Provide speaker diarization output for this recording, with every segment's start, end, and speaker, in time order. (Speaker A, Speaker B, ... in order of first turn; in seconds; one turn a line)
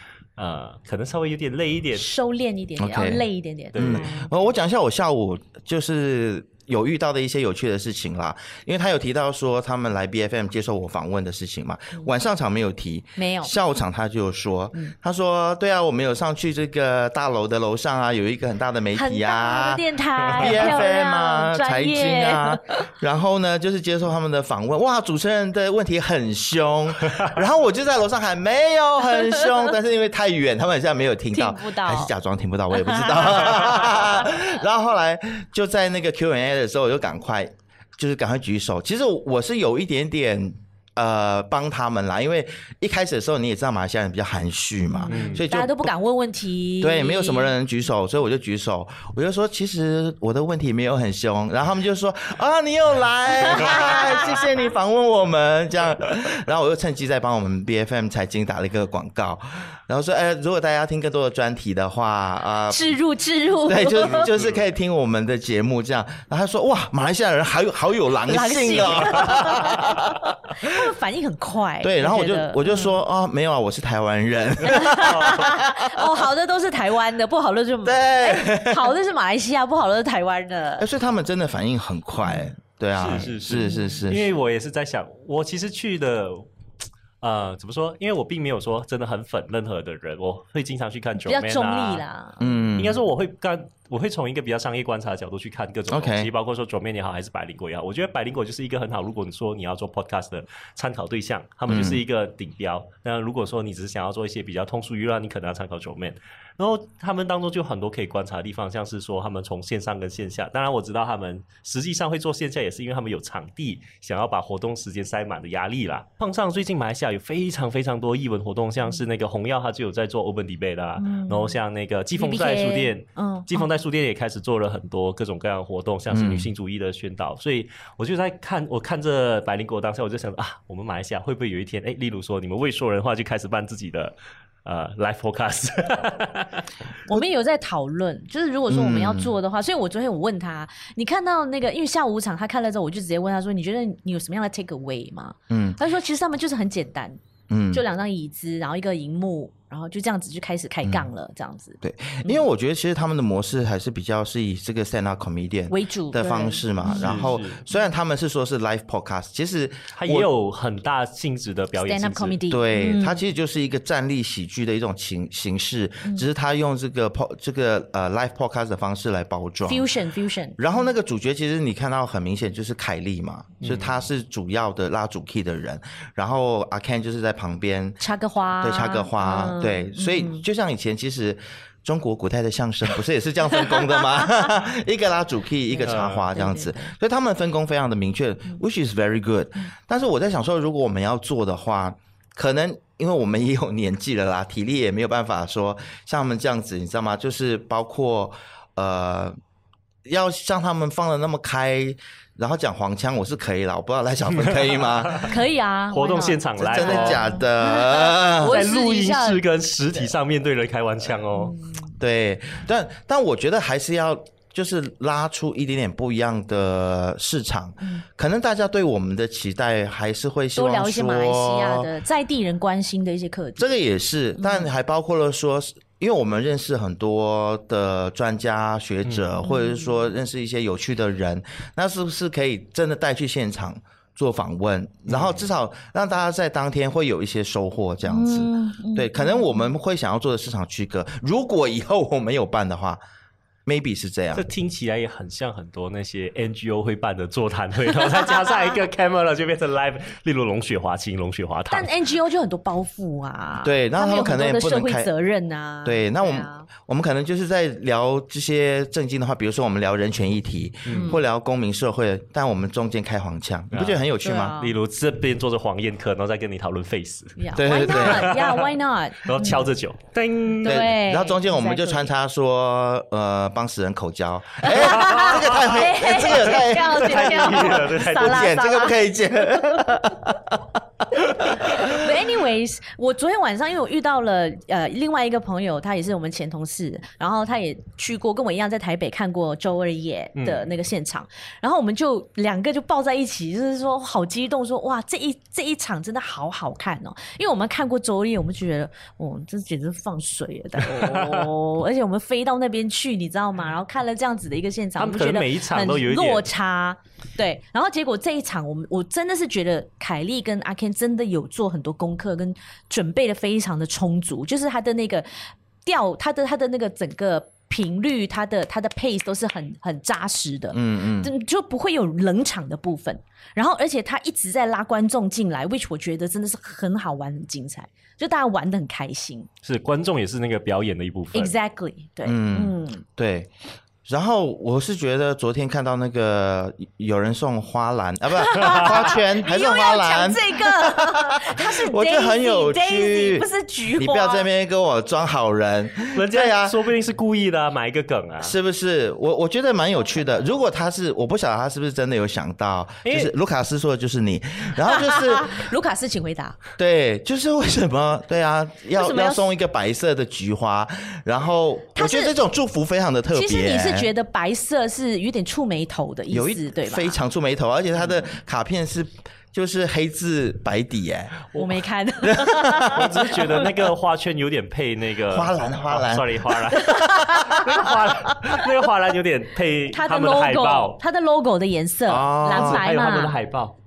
Speaker A: 0.4-2.1
Speaker B: 1.9-4.3
Speaker C: 2.8-19.8
Speaker A: 3.7-4.1
Speaker B: 13.2-13.5
Speaker B: 18.9-22.9
Speaker A: 20.2-20.7
Speaker C: 20.4-45.9
Speaker B: 29.2-29.5
Speaker B: 31.3-32.1
Speaker B: 32.7-34.4
Speaker B: 44.9-47.5
Speaker A: 45.1-45.5
Speaker C: 46.8-63.0
Speaker B: 53.5-54.4
Speaker B: 62.7-64.3
Speaker C: 63.6-70.1
Speaker A: 64.1-64.6
Speaker B: 68.3-73.0
Speaker C: 71.8-76.0
Speaker B: 74.7-80.9
Speaker A: 74.8-75.5
Speaker C: 77.8-78.9
Speaker C: 80.8-84.3
Speaker B: 82.2-82.5
Speaker A: 82.9-86.5
Speaker B: 83.5-84.0
Speaker A: 87.2-92.0
Speaker B: 91.2-92.6
Speaker C: 92.4-93.0
Speaker A: 92.8-136.7
Speaker C: 95.9-96.3
Speaker C: 101.7-102.0
Speaker B: 121.0-121.6
Speaker B: 122.2-123.7
Speaker C: 126.1-126.5
Speaker B: 137.1-147.2
Speaker C: 138.7-139.3
Speaker C: 145.5-145.8
Speaker C: 147.5-147.8
Speaker B: 147.7-152.5
Speaker C: 151.8-160.3
Speaker B: 155.7-157.9
Speaker A: 156.9-157.6
Speaker A: 159.9-162.4
Speaker B: 161.8-163.2
Speaker C: 162.5-169.9
Speaker B: 169.7-170.6
Speaker C: 170.6-178.0
Speaker A: 173.6-174.0
Speaker B: 178.0-180.4
Speaker C: 178.6-199.4
Speaker B: 183.6-184.5
Speaker B: 185.7-186.9
Speaker A: 185.8-186.3
Speaker C: 200.1-205.3
Speaker A: 205.1-205.3
Speaker B: 205.2-209.4
Speaker A: 205.9-207.3
Speaker C: 206.6-208.6
Speaker A: 208.4-211.5
Speaker B: 211.3-211.9
Speaker C: 212.0-221.9
Speaker B: 220.6-223.7
Speaker C: 223.6-243.0
Speaker B: 224.4-224.7
Speaker A: 229.1-229.3
Speaker B: 229.4-230.1
Speaker A: 235.1-235.4
Speaker B: 238.1-239.7
Speaker C: 243.7-244.4
Speaker A: 244.3-251.9
Speaker B: 251.7-256.7
Speaker C: 253.6-255.1
Speaker C: 255.8-264.6
Speaker A: 260.9-261.2
Speaker B: 260.9-261.2
Speaker A: 263.7-268.7
Speaker B: 264.2-264.8
Speaker B: 267.4-269.7
Speaker C: 267.6-268.4
Speaker A: 269.2-270.9
Speaker C: 270.6-280.6
Speaker B: 270.6-272.1
Speaker B: 274.6-279.9
Speaker A: 274.9-275.8
Speaker A: 276.5-278.6
Speaker C: 281.1-282.1
Speaker B: 281.4-329.5
Speaker A: 290.4-290.7
Speaker A: 300.8-301.5
Speaker A: 305.0-306.5
Speaker C: 320.7-321.3
Speaker A: 329.6-331.5
Speaker B: 331.3-333.0
Speaker C: 332.2-333.5
Speaker C: 334.1-346.9
Speaker B: 338.4-344.5
Speaker A: 346.1-348.6
Speaker C: 348.4-355.6
Speaker A: 353.1-353.3
Speaker B: 354.8-356.6
Speaker C: 356.8-364.1
Speaker B: 358.9-359.5
Speaker B: 362.0-362.4
Speaker B: 363.3-367.2
Speaker C: 366.3-371.4
Speaker B: 371.6-373.7
Speaker C: 372.2-373.1
Speaker A: 372.9-381.0
Speaker C: 375.3-376.5
Speaker B: 376.7-377.7
Speaker C: 377.4-377.9
Speaker B: 379.9-383.4
Speaker C: 382.1-382.8
Speaker A: 382.5-383.8